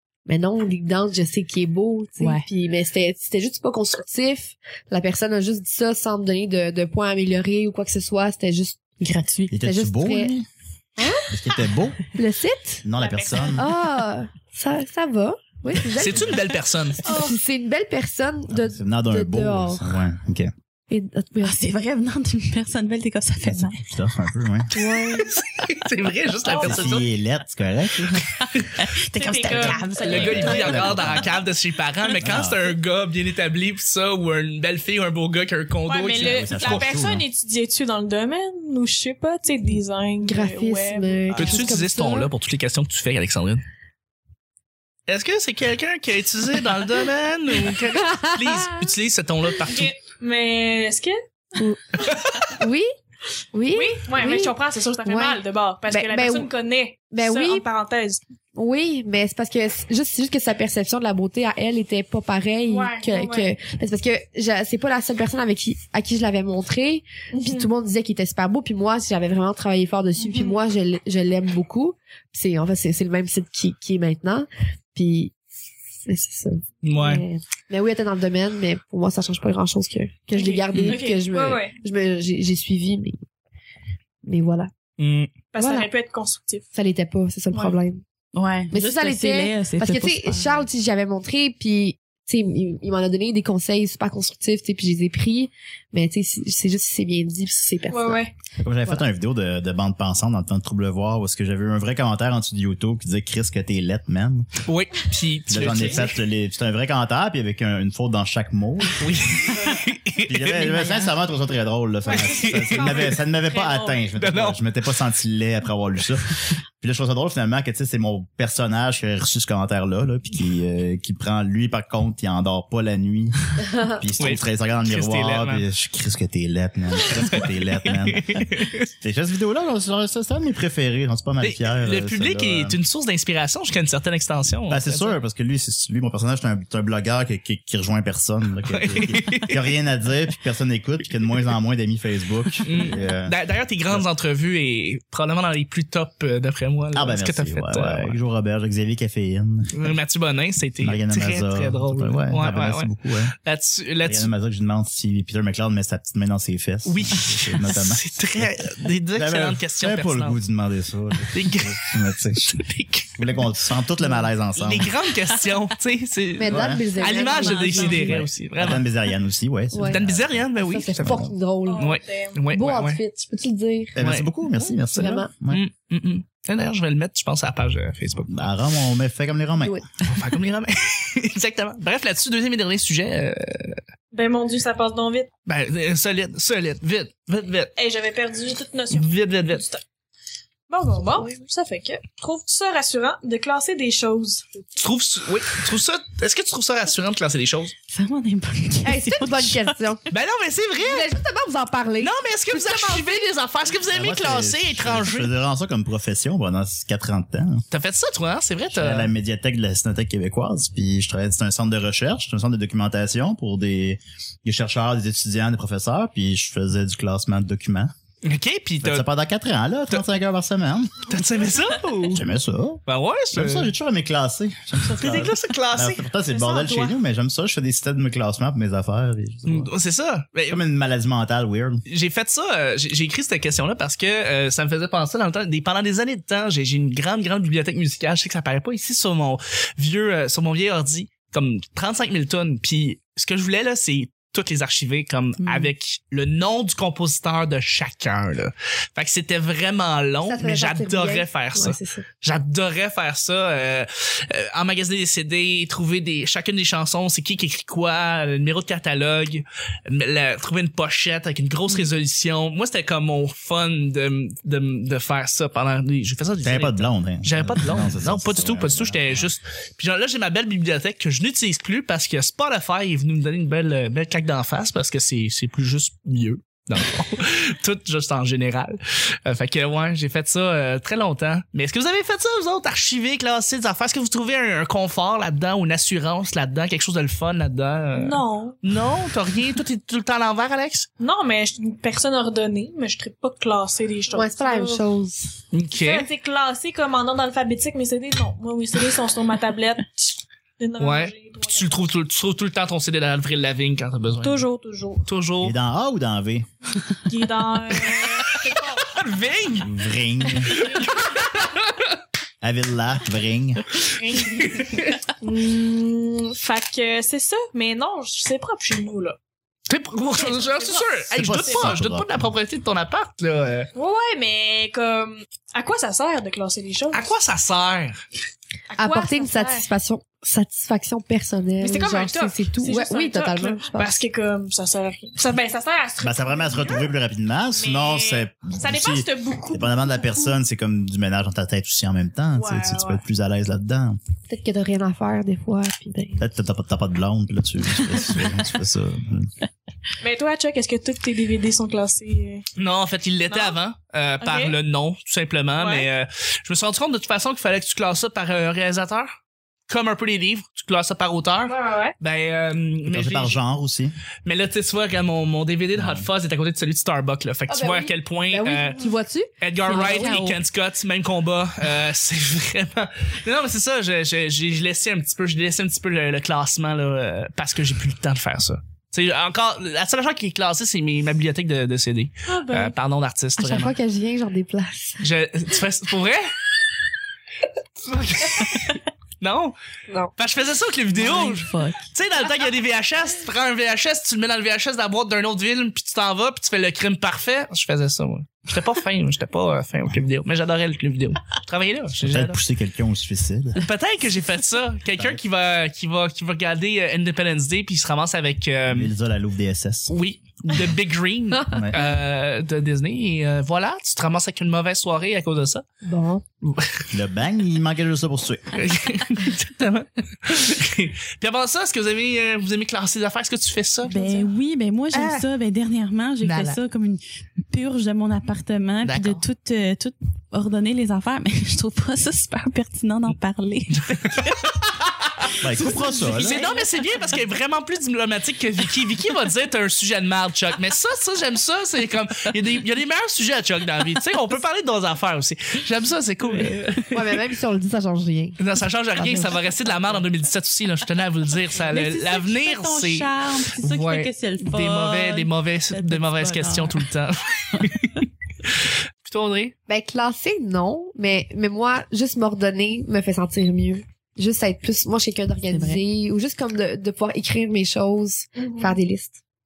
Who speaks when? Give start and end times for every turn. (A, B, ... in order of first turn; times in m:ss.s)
0:00.3-0:08.8 A
0:02.2-0:02.4 B
0:09.0-0:09.6 B
0:09.5-0:10.5 C
0:09.6-0:10.3 A
0:11.0-0:11.3 A
0:11.3-0:12.0 C
0:12.2-0:12.8 A
0:12.8-0:13.7 C
0:13.0-0:13.6 D
0:13.6-0:16.4 A
0:16.0-0:17.0 E
0:17.0-0:19.9 A
0:17.0-0:17.4 D
0:18.5-0:20.5 C
0:20.9-0:21.6 A
0:21.4-0:23.8 B
0:23.4-0:24.7 C
0:24.7-0:27.1 E
0:24.8-0:25.3 A
0:26.4-0:27.1 D
0:26.6-0:28.2 C
0:28.1-0:31.2 B
0:28.5-0:28.8 E
0:29.1-0:30.9 D
0:30.0-0:36.9 E
0:30.1-0:31.2 C
0:32.2-0:32.6 C
0:35.9-0:41.6 D
0:36.2-0:37.2 C
0:40.2-0:42.3 A
0:41.4-0:43.6 E
0:45.1-0:49.9 E
0:47.9-0:48.9 A
0:49.7-0:51.2 D
0:51.6-0:52.9 A
0:52.1-0:52.4 E
0:53.5-0:56.5 A
0:53.7-0:58.2 D
0:57.1-0:57.6 A
0:58.6-1:15.3 A
1:02.7-1:03.5 D
1:07.3-1:07.7 D
1:10.2-1:10.6 D
1:16.1-1:23.2 A
1:16.8-1:17.2 E
1:20.3-1:21.8 D
1:20.7-1:21.0 B
1:24.2-1:24.7 A
1:25.0-1:25.3 E
1:25.5-1:26.7 D
1:25.6-1:25.9 A
1:26.7-1:28.0 A
1:28.3-1:30.7 B
1:28.7-1:38.2 A
1:37.9-1:38.3 D
1:38.6-1:44.5 C
1:44.7-1:46.2 E
1:45.5-1:49.2 C
1:49.0-1:50.9 E
1:50.3-2:08.5 C
1:52.1-1:54.1 D
1:52.1-1:53.2 E
1:54.2-1:54.6 E
2:04.2-2:05.6 E
2:07.2-2:08.9 E
2:09.0-2:12.8 C
2:11.4-2:15.2 E
2:14.7-2:23.4 C
2:18.7-2:19.6 E
2:22.6-2:28.2 E
2:26.9-2:30.0 C
2:29.7-2:34.3 E
2:30.8-2:33.3 C
2:34.0-2:42.6 C
2:36.9-2:40.4 E
2:41.3-2:43.2 E
2:43.2-2:44.9 C
2:44.6-2:48.8 E
2:46.4-2:48.2 A
2:46.5-2:46.9 C
2:47.2-2:47.7 D
2:47.8-2:48.1 B
2:47.9-2:51.3 C
2:49.7-2:50.0 A
2:49.9-2:51.3 E
2:50.6-2:52.0 A
2:51.7-2:52.4 D
2:51.8-2:53.0 E
2:52.5-2:54.0 A
2:54.0-2:55.6 C
2:54.0-2:54.3 E
2:54.8-2:55.3 A
2:55.5-2:58.4 E
2:58.3-2:59.8 C
2:59.6-2:59.8 A
3:00.0-3:03.8 E
3:04.1-3:05.3 D
3:05.5-3:07.7 E
3:07.8-3:09.8 D
3:08.9-3:09.6 E
3:10.7-3:14.5 D
3:14.8-3:17.7 E
3:17.9-3:19.8 B
3:18.8-3:20.0 A
3:20.1-3:21.1 E
3:20.8-3:23.2 A
3:22.0-3:25.3 E
3:23.9-3:27.6 C
3:27.7-3:29.1 E
3:28.7-3:37.9 C
3:38.2-3:39.1 E
3:38.8-3:41.5 C
3:41.1-3:42.2 E
3:42.0-3:49.7 C
3:42.9-3:43.7 E
3:45.0-3:46.0 E
3:46.4-3:46.9 A
3:49.5-3:50.6 E
3:50.5-3:51.8 C
3:51.9-4:50.9 E
4:05.4-4:05.7 B
4:10.2-4:12.0 A
4:26.4-4:29.3 C
4:48.0-4:48.6 D
4:51.0-4:54.9 D
4:54.1-4:55.3 A
4:55.5-4:56.1 E
4:55.7-5:01.9 D
5:00.8-5:04.4 E
5:04.2-5:05.1 D
5:05.1-5:05.6 E
5:05.4-5:06.5 C
5:07.1-5:08.9 D
5:07.9-5:09.7 E
5:09.6-5:10.6 C
5:10.5-5:11.9 E
5:12.4-5:13.7 C
5:14.0-5:19.2 D
5:14.2-5:15.1 E
5:19.7-5:23.7 E
5:20.1-5:21.8 D
5:21.1-5:22.3 C
5:23.8-5:27.0 D
5:26.9-5:28.0 E
5:28.7-5:29.7 D
5:28.8-5:34.0 A
5:31.6-5:36.9 D
5:36.0-5:44.0 C
5:37.6-5:40.4 D
5:42.4-5:43.0 D
5:44.3-5:46.2 A
5:46.2-5:49.3 C
5:50.0-5:52.5 D
5:52.6-5:59.2 E
5:53.3-5:53.6 D
5:54.2-5:54.6 D
5:55.6-5:55.9 D
5:59.7-6:03.4 E
6:01.5-6:02.0 D
6:02.9-6:03.9 C
6:04.2-6:08.8 E
6:05.8-6:06.1 C
6:07.5-6:10.4 A
6:09.4-6:23.8 E
6:09.7-6:10.4 B
6:22.3-6:22.8 D
6:23.4-6:25.0 A
6:25.0-6:26.3 E
6:27.8-6:29.6 E
6:30.2-6:42.4 E
6:30.9-6:31.8 B
6:42.0-6:43.6 C
6:43.6-6:48.9 E
6:48.7-6:49.9 C
6:49.9-6:55.6 E
6:51.5-6:51.8 C
6:55.8-6:56.2 A
6:56.4-6:56.8 E
6:56.9-6:58.6 C
6:58.5-7:04.3 E
7:03.8-7:14.7 B
7:04.9-7:05.3 E
7:06.2-7:06.6 E
7:08.8-7:09.2 E
7:13.7-7:26.9 E
7:15.3-7:17.1 B
7:15.4-7:16.4 C
7:26.9-7:28.4 A
7:28.4-7:39.5 E
7:28.9-7:30.0 A
7:31.6-7:36.9 B
7:37.5-7:37.9 B
7:39.7-7:49.2 A
7:45.5-7:45.8 B
7:48.4-7:48.8 D